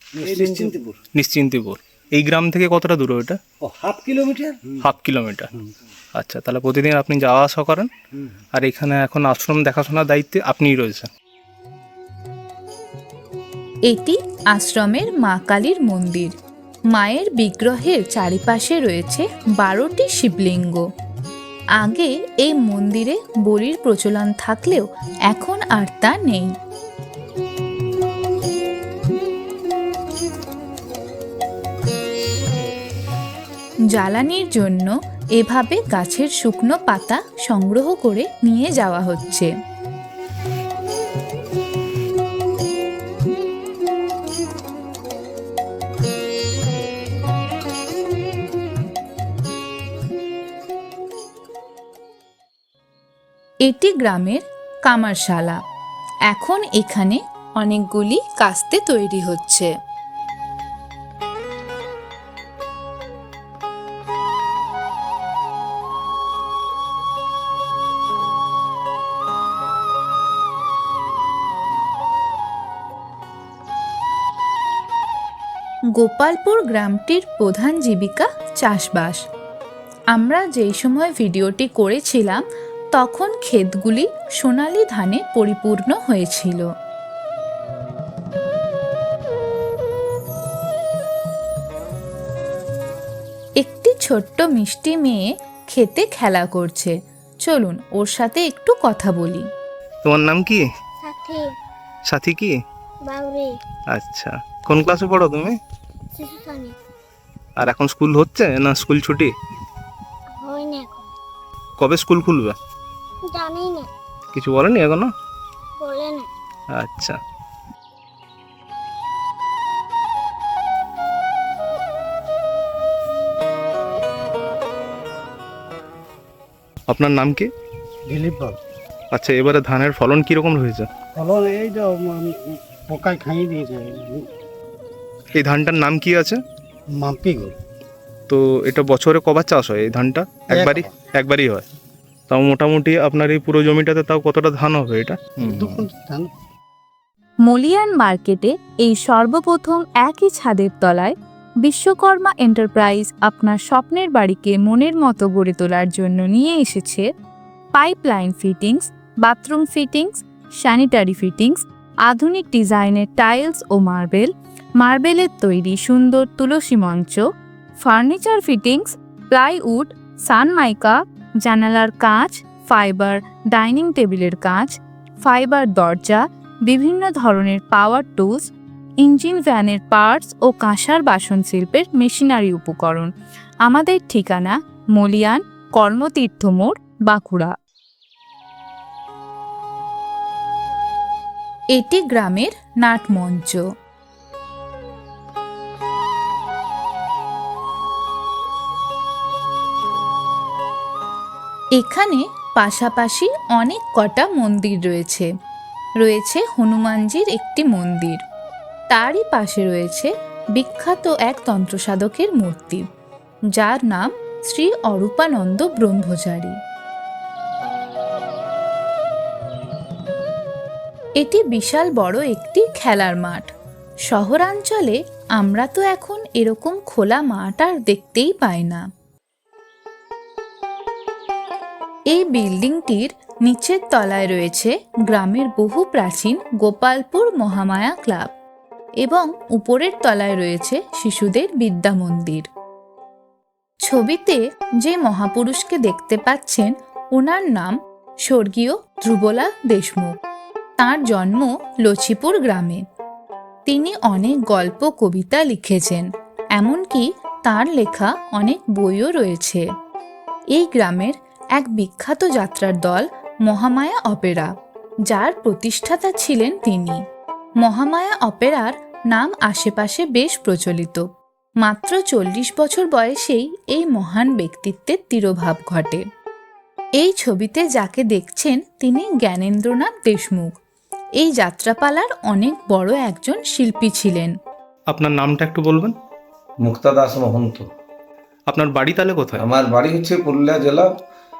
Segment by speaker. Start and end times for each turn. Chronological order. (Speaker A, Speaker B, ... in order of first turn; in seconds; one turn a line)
Speaker A: 0.2-1.0
Speaker B: 1.1-3.4
Speaker A: 3.6-4.7
Speaker B: 4.8-5.5
Speaker B: 6.2-7.9
Speaker B: 8.5-11.1
Speaker C: 13.9-16.3
Speaker C: 16.9-20.9
Speaker C: 21.8-26.5
Speaker C: 33.9-39.5
Speaker C: 53.7-55.6
Speaker C: 56.3-59.7
Speaker C: 76.0-79.2
Speaker C: 80.1-82.4
Speaker C: 83.0-86.7
Speaker C: 93.6-99.5
Speaker B: 100.0-100.6
Speaker D: 101.0-101.5
Speaker B: 102.1-102.5
Speaker D: 103.1-103.5
Speaker B: 103.9-105.6
Speaker D: 106.2-106.7
Speaker B: 107.6-109.3
Speaker D: 110.4-111.1
Speaker B: 111.8-112.6
Speaker D: 113.3-113.9
Speaker B: 114.3-115.1
Speaker D: 115.8-116.3
Speaker B: 116.7-117.2
Speaker B: 126.9-127.5
Speaker A: 128.1-128.6
Speaker B: 129.1-130.9
Speaker A: 131.2-134.3
Speaker B: 135.4-136.4
Speaker A: 137.0-137.6
Speaker B: 138.3-141.6
Speaker A: 140.5-140.9
Speaker B: 142.3-145.9
Speaker A: 145.4-146.3
Speaker C: 147.4-157.1
Speaker C: 157.8-167.3
Speaker C: 167.8-183.1
Speaker C: 183.6-187.5
Speaker C: 191.8-193.7
Speaker C: 201.8-205.3
Speaker C: 206.0-208.2
Speaker C: 208.9-212.8
Speaker C: 213.5-216.6
Speaker C: 221.2-223.5
Speaker C: 224.1-228.8
Speaker C: 232.1-238.3
Speaker C: 239.0-242.5
Speaker C: 243.8-250.2
Speaker C: 250.8-252.8
Speaker C: 253.7-259.6
Speaker C: 260.6-264.5
Speaker C: 265.1-267.0
Speaker C: 267.6-271.1
Speaker C: 271.6-276.0
Speaker C: 277.0-280.6
Speaker C: 281.2-284.4
Speaker B: 284.9-285.9
Speaker E: 286.6-287.7
Speaker B: 288.5-289.5
Speaker E: 289.4-290.9